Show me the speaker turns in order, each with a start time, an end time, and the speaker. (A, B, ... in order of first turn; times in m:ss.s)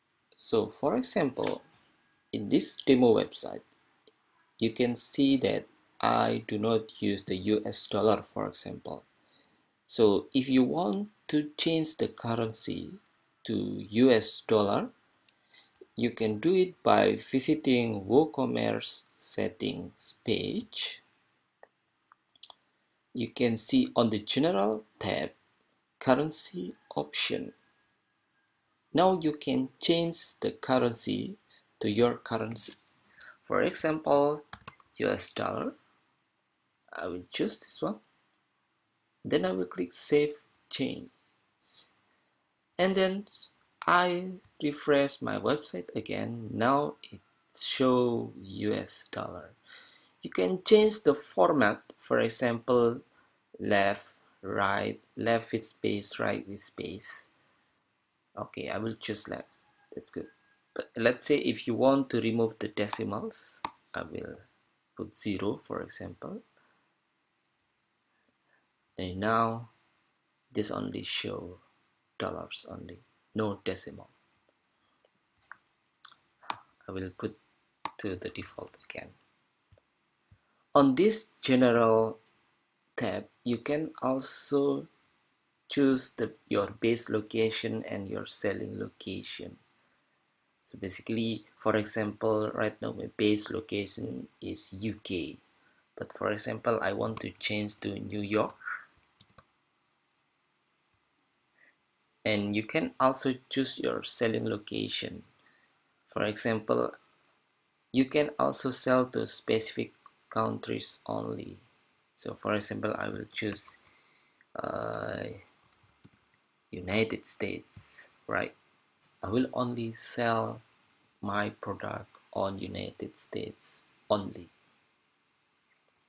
0:00.4-0:01.6 A
0:02.3-0:03.6 A
0:04.6-0:09.0 A
0:09.9-0:14.9 A
0:16.0-0:21.0 A
0:23.1-0:25.4 A
0:26.0-0:27.5 A
0:28.9-0:32.7 A
0:33.4-0:34.4 A
0:35.0-0:35.8 A
0:36.9-0:38.0 A
0:39.2-0:41.9 A
0:42.8-0:49.6 A
0:50.2-0:53.0 A
0:53.6-0:57.3 A
0:58.4-1:04.4 A
1:05.0-1:06.4 A
1:09.0-1:09.7 A
1:10.5-1:11.6 A
1:12.2-1:14.1 A
1:16.8-1:17.4 A
1:18.0-1:19.2 A
1:20.8-1:22.2 A
1:23.0-1:24.9 A
1:25.7-1:29.6 A
1:30.6-1:35.4 A
1:36.0-1:38.6 A
1:42.2-1:45.3 A
1:46.1-1:47.0 A
1:47.9-1:51.6 A
1:52.2-1:53.8 A
1:54.6-1:55.4 A
1:56.7-1:58.5 A
1:59.2-2:00.6 A
2:01.2-2:04.5 A